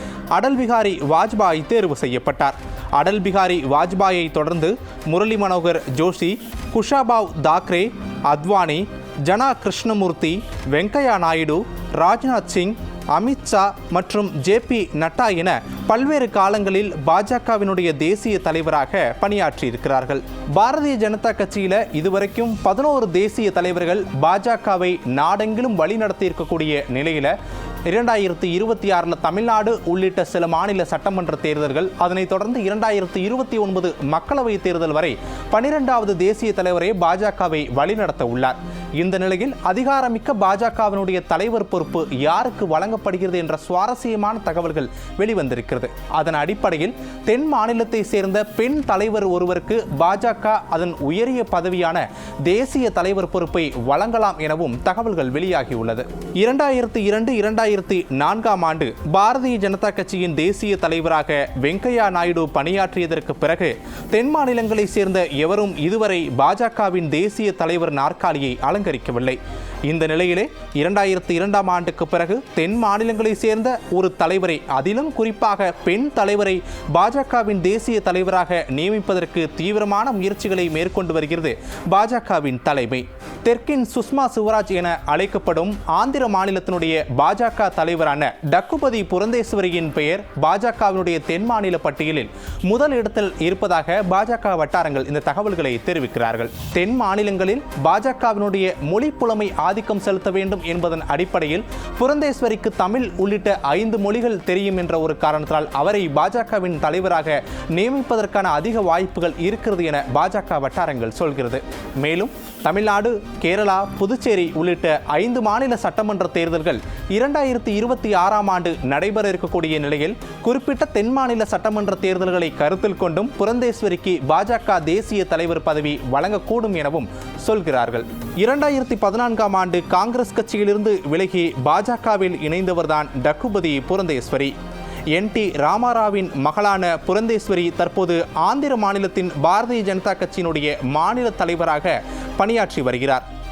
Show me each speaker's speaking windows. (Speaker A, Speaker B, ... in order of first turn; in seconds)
Speaker A: 0.3-27.3, 27.9-134.5, 135.1-143.2